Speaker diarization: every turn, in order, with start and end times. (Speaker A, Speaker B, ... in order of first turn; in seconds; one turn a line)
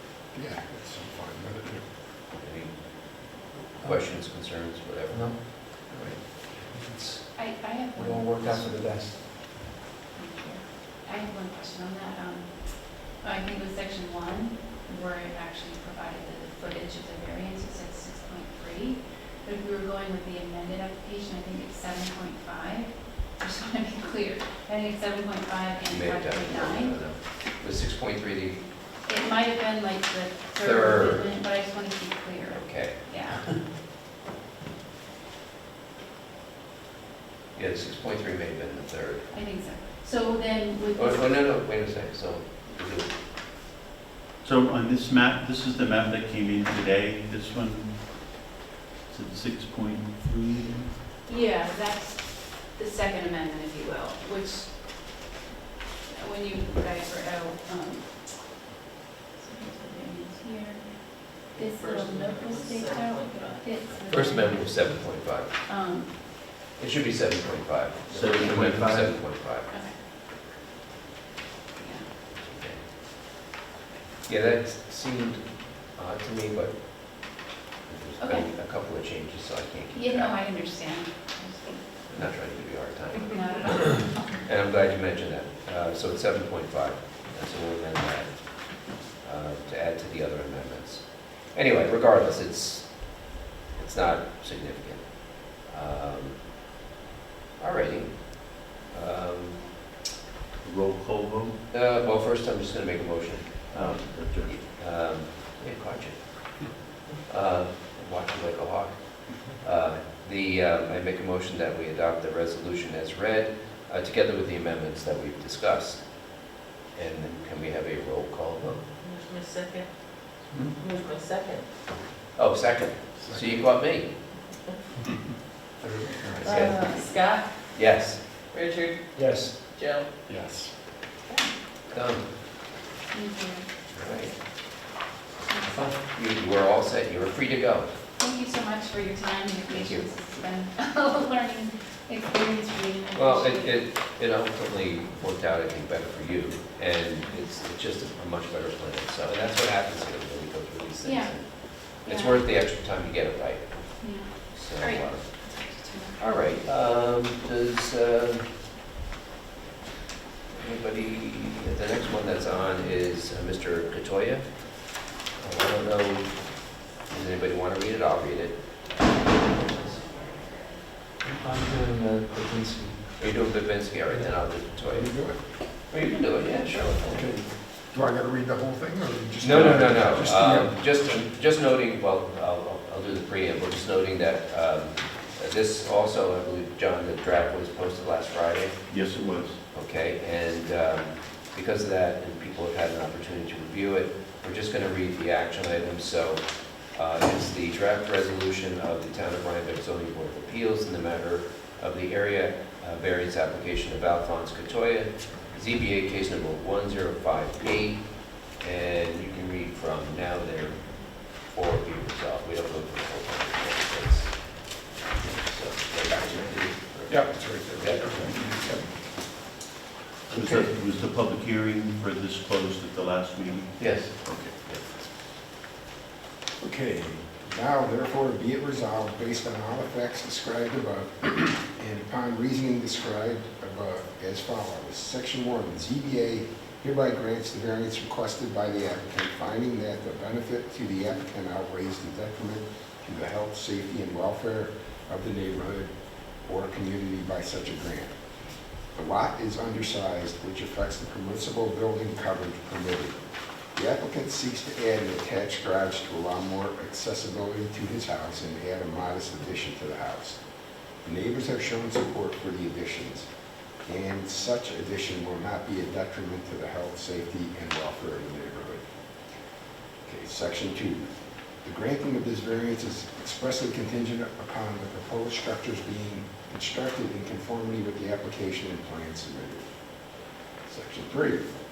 Speaker A: 0.3-1.9
Speaker B: 2.4-6.2
Speaker C: 3.8-4.0
Speaker C: 5.1-9.2
Speaker D: 7.3-8.9
Speaker D: 10.1-27.0
Speaker B: 25.9-28.7
Speaker D: 29.0-33.6
Speaker B: 30.6-31.2
Speaker B: 32.5-33.0
Speaker B: 37.5-39.3
Speaker D: 39.3-41.5
Speaker B: 41.0-43.1
Speaker E: 44.4-48.3
Speaker E: 49.1-51.0
Speaker D: 51.3-55.1
Speaker D: 56.1-58.5
Speaker D: 59.4-66.1
Speaker F: 61.5-63.8
Speaker B: 64.1-65.5
Speaker B: 66.8-69.7
Speaker E: 68.1-69.2
Speaker D: 69.7-70.0
Speaker D: 71.8-72.1
Speaker B: 72.3-72.8
Speaker B: 74.2-77.3
Speaker B: 77.8-80.3
Speaker D: 78.2-78.5
Speaker D: 79.9-82.1
Speaker B: 82.1-96.4
Speaker D: 83.3-84.4
Speaker B: 97.6-99.7
Speaker E: 100.6-101.6
Speaker B: 101.7-118.8
Speaker E: 103.7-104.6
Speaker F: 119.0-121.7
Speaker B: 122.3-124.1
Speaker A: 125.8-126.4
Speaker B: 126.4-126.8
Speaker F: 126.4-127.5
Speaker D: 126.5-127.4
Speaker B: 127.7-128.2
Speaker F: 128.5-130.1
Speaker C: 129.1-129.6
Speaker A: 130.3-130.7
Speaker B: 131.9-132.3
Speaker D: 133.1-133.7
Speaker B: 133.9-134.3
Speaker D: 135.4-136.0
Speaker B: 135.7-137.9
Speaker D: 138.2-143.8
Speaker B: 139.7-140.1
Speaker B: 143.1-155.4
Speaker D: 151.0-152.4
Speaker D: 154.0-156.3
Speaker B: 156.2-158.5
Speaker B: 160.5-170.0
Speaker C: 171.2-173.3
Speaker B: 173.2-177.3
Speaker A: 174.9-175.4
Speaker A: 177.1-181.0
Speaker B: 179.4-188.9
Speaker E: 188.9-189.6
Speaker B: 189.7-218.3
Speaker A: 216.9-218.9
Speaker E: 220.3-224.5
Speaker B: 220.3-220.7
Speaker B: 223.8-224.8
Speaker A: 226.6-245.9
Speaker A: 246.4-248.1
Speaker A: 248.9-253.2
Speaker A: 253.7-260.4
Speaker A: 261.0-263.3
Speaker A: 263.8-268.8
Speaker A: 270.0-271.1
Speaker A: 271.6-279.7
Speaker A: 280.6-281.5